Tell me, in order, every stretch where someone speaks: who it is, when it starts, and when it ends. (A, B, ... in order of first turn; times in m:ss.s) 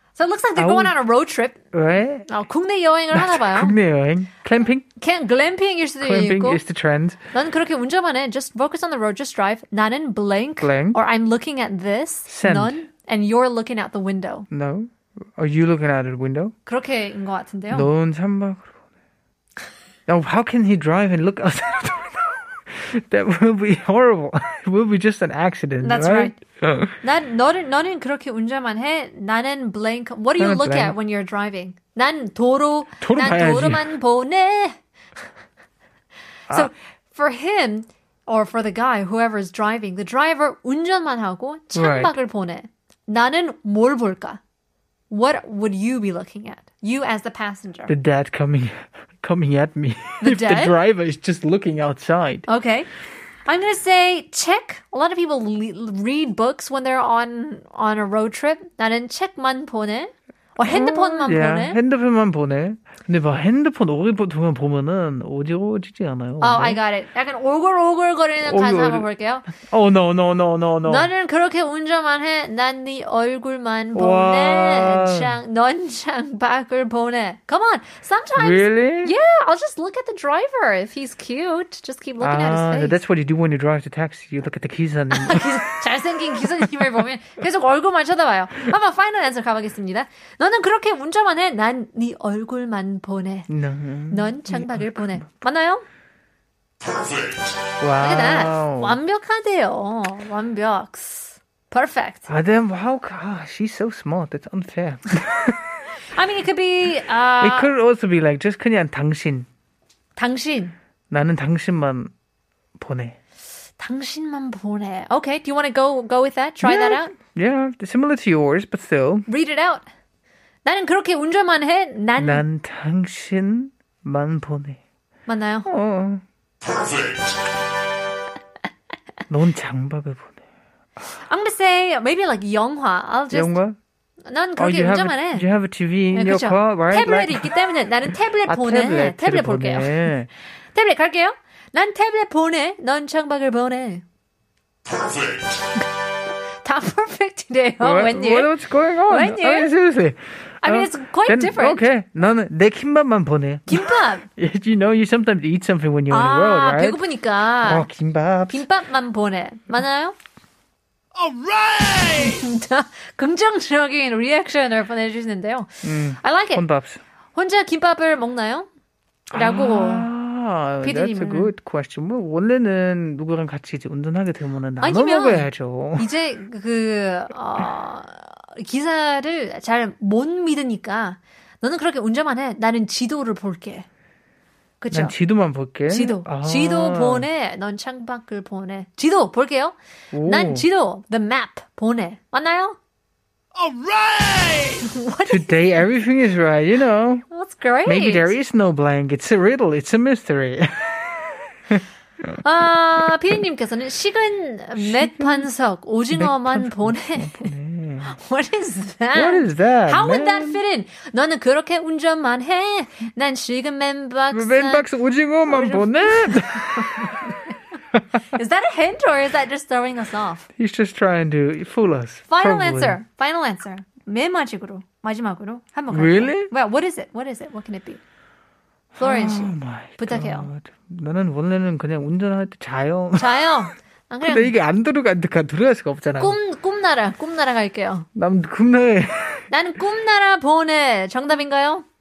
0:00.2-0:01.6 A
0:00.6-0:01.0 B
0:01.7-0:02.3 B
0:02.3-0:03.8 A
0:03.1-0:04.8 B
0:05.0-0:06.6 A
0:06.0-0:07.2 B
0:07.3-0:14.5 A
0:10.6-0:11.0 B
0:12.3-0:12.8 B
0:14.5-0:16.5 B
0:16.6-0:17.9 A
0:17.7-0:18.7 B
0:20.1-0:27.0 B
0:25.8-0:26.3 A
0:27.0-0:34.8 A
0:30.4-0:31.0 B
0:33.0-0:33.9 B
0:36.5-0:44.4 A
0:41.7-0:42.1 B
0:45.1-0:47.9 A
0:47.9-0:52.5 B
0:50.2-0:50.7 A
0:52.5-0:52.9 A
0:53.4-1:01.8 A
1:00.6-1:06.8 B
1:06.4-1:09.5 A
1:08.4-1:11.1 B
1:10.8-1:23.0 A
1:13.9-1:15.4 B
1:18.4-1:19.1 B
1:22.2-1:25.8 B
1:25.1-1:33.5 A
1:33.5-1:35.3 B
1:34.1-1:35.8 A
1:37.8-1:39.0 B
1:38.0-1:42.3 A
1:42.3-1:45.8 B
1:46.1-1:47.7 A
1:47.4-1:49.4 B
1:50.2-1:50.7 A
1:51.1-1:52.1 B
1:52.8-1:53.2 B
1:53.8-1:57.1 A
1:56.6-1:59.3 B
1:59.3-1:59.8 A
2:00.6-2:02.4 A
2:02.2-2:04.8 B
2:05.3-2:05.7 A
2:05.6-2:06.2 B
2:09.3-2:10.4 B
2:11.2-2:13.5 A
2:13.3-2:13.8 B
2:14.3-2:15.4 A
2:14.6-2:17.5 B
2:16.1-2:20.1 A
2:18.4-2:20.3 B
2:20.7-2:24.0 A
2:26.6-2:28.5 A
2:27.8-2:37.0 B
2:29.1-2:29.7 A
2:30.6-2:31.8 A
2:33.7-2:34.2 A
2:36.1-2:37.9 A
2:37.6-2:38.6 B
2:38.5-2:40.2 A
2:41.5-2:41.9 B
2:41.7-2:46.6 A
2:45.8-2:47.0 B
2:47.3-2:48.7 A
2:49.3-2:50.1 A
2:49.3-2:56.1 B
2:50.8-2:51.5 A
2:54.8-3:03.9 A
3:04.8-3:05.1 A
3:04.9-3:07.3 B
3:05.9-3:12.8 A
3:10.1-3:10.7 B
3:13.7-3:14.6 B
3:14.4-3:15.6 A
3:15.3-3:17.2 B
3:17.3-3:18.3 A
3:17.8-3:21.8 B
3:22.4-3:27.5 A
3:24.8-3:25.5 B
3:26.1-3:28.2 B
3:28.1-3:34.9 A
3:29.1-3:30.6 B
3:34.3-3:37.2 B
3:35.5-3:37.5 A
3:38.3-3:40.4 A
3:40.6-3:43.0 B
3:42.3-3:48.0 A
3:45.9-3:46.5 B
3:48.9-3:56.4 B
3:49.0-3:50.5 A
3:53.2-3:54.5 A
3:56.2-3:58.1 A
3:58.2-3:59.5 B
3:59.5-4:01.8 A